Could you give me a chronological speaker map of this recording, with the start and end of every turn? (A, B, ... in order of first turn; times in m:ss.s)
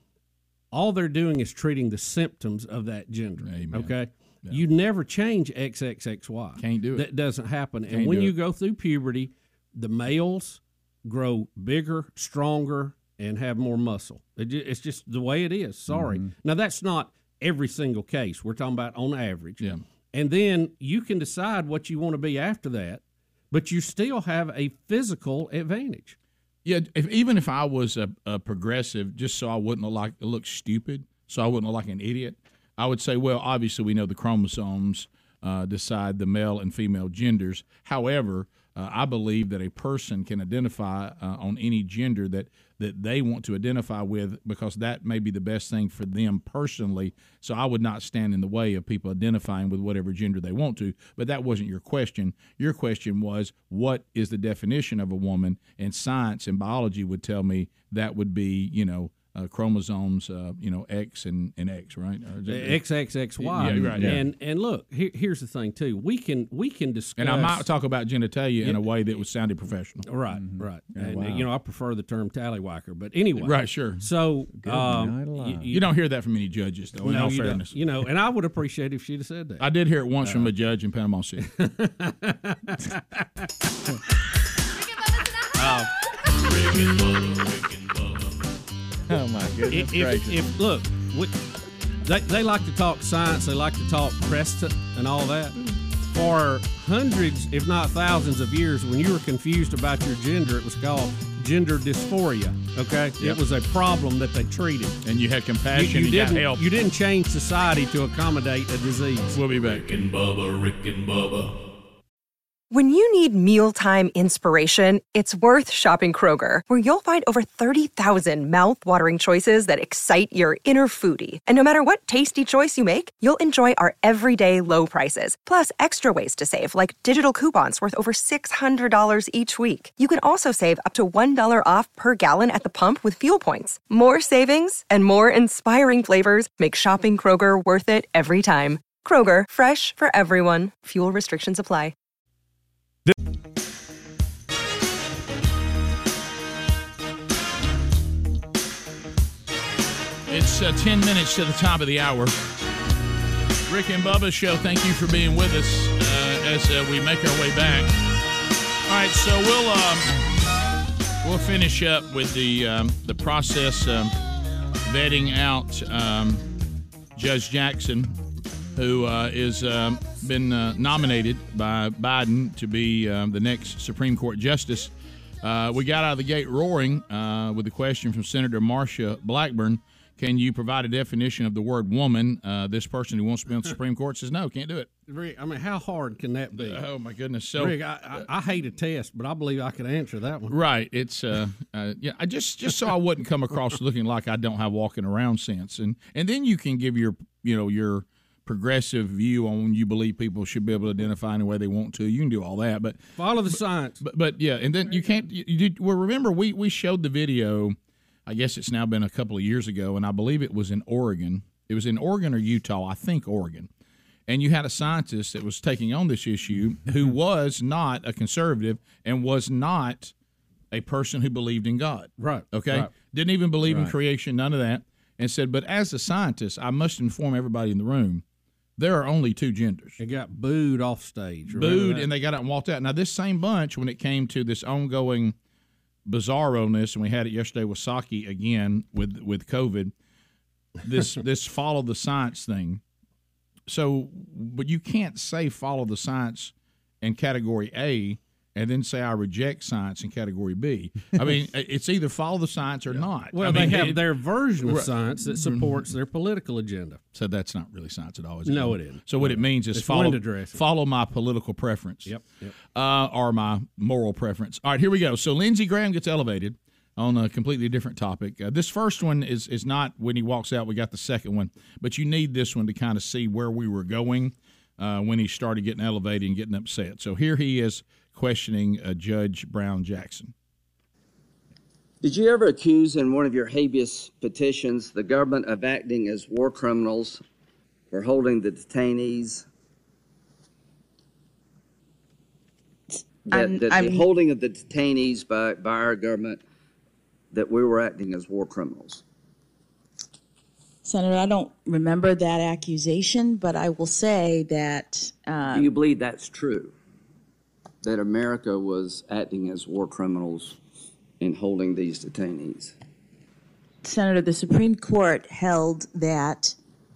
0:00.7-0:26.2 A
0:03.4-0:03.9 B
0:06.6-0:07.1 B
0:07.9-0:08.3 B
0:26.6-1:02.8 B
1:02.5-1:07.7 A
1:03.4-1:04.2 B
1:03.6-1:04.2 C
1:07.2-1:10.1 B
1:10.1-1:15.9 A
1:10.4-1:11.5 C
1:13.4-1:14.0 B
1:14.6-1:15.7 C
1:15.7-1:17.7 B
1:17.0-1:19.7 A
1:19.6-1:21.5 B
1:20.2-1:20.5 A
1:21.4-1:23.2 A
1:25.5-1:25.9 A
1:26.3-1:28.4 D
1:29.1-1:30.4 C
1:29.7-1:31.3 A
1:32.0-1:35.6 A
1:36.1-1:45.0 A
1:45.0-1:46.6 B
1:45.7-1:49.4 A
1:49.3-1:49.9 B
1:49.6-1:51.6 D
1:52.7-2:21.9 E
2:30.3-2:32.3 B
2:33.7-2:37.9 B
2:38.9-2:40.2 B
2:41.2-2:44.1 B
2:44.8-2:46.4 B
2:47.2-2:48.1 B
2:48.8-3:04.9 B
3:05.1-3:06.8 A
3:06.6-3:08.3 B
3:07.6-3:10.6 A
3:10.5-3:33.7 B
3:23.2-3:24.0 A
3:34.3-3:40.1 B
3:40.7-3:48.2 B
3:42.2-3:42.9 A
3:43.7-3:43.9 C
3:48.8-3:50.0 B
3:50.0-3:52.1 A
3:51.5-3:55.4 B
3:56.1-3:59.9 B
4:00.8-4:02.8 B
4:03.7-4:14.1 B
4:13.0-4:17.0 A
4:14.6-4:15.8 B
4:17.2-4:22.1 B
4:18.4-4:20.6 A
4:22.1-4:22.5 A
4:22.7-4:40.3 B
4:42.0-4:47.2 F
4:47.9-4:49.5 F
4:52.9-4:54.0 G
4:53.3-4:56.4 F
4:57.3-4:59.0 F
5:00.8-5:05.7 G
5:05.5-5:06.7 F
5:07.8-5:10.6 F
5:11.2-5:12.7 F
5:13.8-5:16.6 G